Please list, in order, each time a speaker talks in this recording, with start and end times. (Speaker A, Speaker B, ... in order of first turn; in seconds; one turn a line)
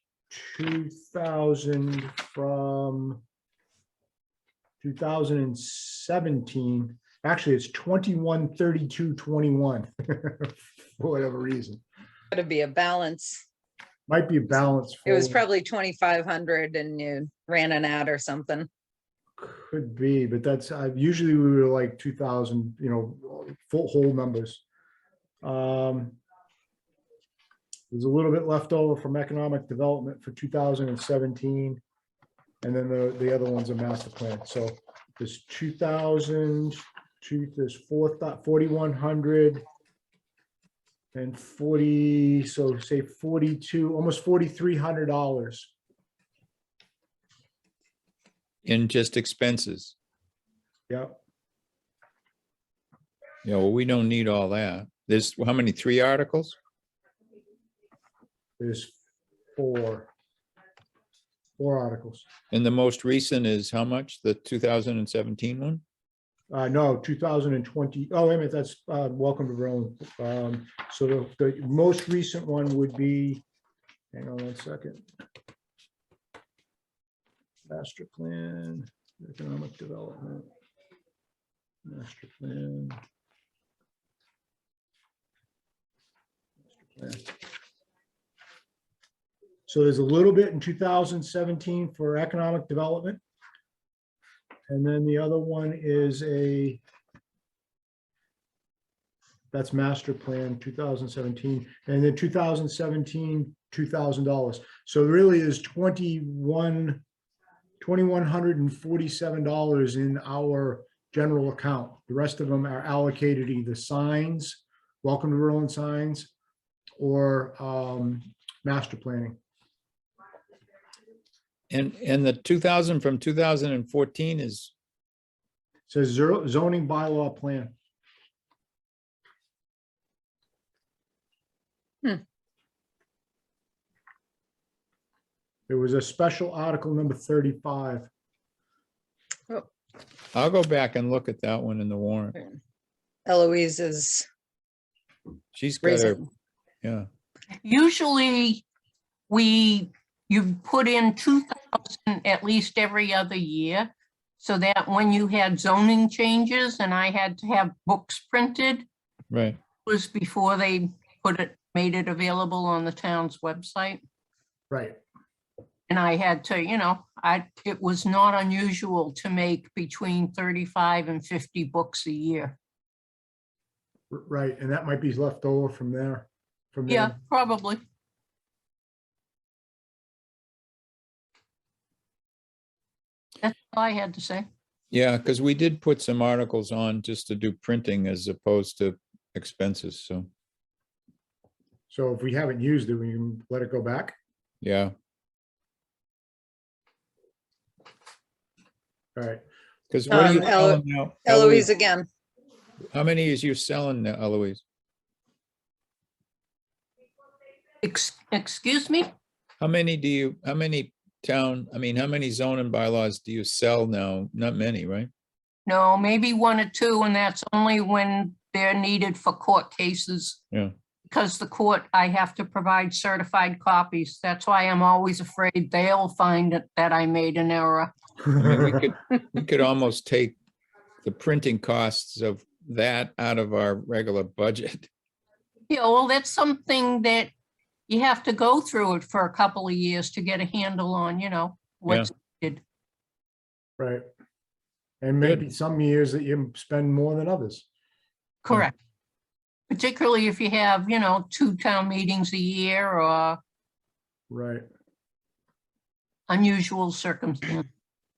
Speaker A: 0.3-3.2
Speaker A: 4.8-11.8
Speaker B: 12.3-13.4
Speaker A: 14.1-15.4
Speaker B: 15.1-18.7
Speaker A: 19.4-24.6
Speaker A: 25.4-26.2
Speaker A: 27.9-31.8
Speaker A: 32.6-39.6
Speaker A: 41.1-45.7
Speaker C: 48.6-49.9
Speaker A: 50.9-51.2
Speaker C: 53.5-56.5
Speaker A: 58.6-59.0
Speaker A: 59.5-60.1
Speaker A: 61.6-62.3
Speaker C: 62.5-65.8
Speaker A: 66.5-73.4
Speaker A: 74.1-75.0
Speaker A: 77.7-80.5
Speaker A: 81.9-83.0
Speaker A: 86.7-87.3
Speaker A: 89.7-93.2
Speaker A: 94.7-96.8
Speaker A: 99.5-107.0
Speaker A: 107.8-116.3
Speaker A: 117.0-119.4
Speaker C: 121.7-124.7
Speaker A: 125.9-127.7
Speaker A: 135.7-138.1
Speaker C: 140.3-142.4
Speaker B: 143.3-144.3
Speaker C: 145.5-146.2
Speaker B: 145.8-146.2
Speaker D: 147.6-148.6
Speaker D: 149.3-153.9
Speaker D: 154.4-158.9
Speaker C: 159.3-159.6
Speaker D: 159.9-164.0
Speaker A: 164.7-165.0
Speaker D: 165.9-172.6
Speaker A: 174.1-177.2
Speaker D: 176.9-177.8
Speaker D: 183.4-184.5
Speaker C: 184.9-190.3
Speaker A: 191.9-194.2
Speaker C: 194.6-194.9
Speaker A: 199.2-199.4
Speaker C: 199.9-201.7
Speaker B: 200.1-202.1
Speaker C: 202.9-204.6
Speaker D: 207.8-209.1
Speaker C: 209.6-215.1
Speaker D: 215.7-220.4
Speaker D: 221.1-227.9
Speaker C: 228.4-230.4
Speaker C: 231.0-234.9
Speaker D: 235.7-237.3
Speaker D: 237.9-242.6
Speaker A: 243.8-244.1
Speaker A: 245.0-247.7
Speaker D: 248.4-248.8
Speaker D: 249.7-253.4
Speaker A: 254.3-254.7
Speaker D: 256.3-257.7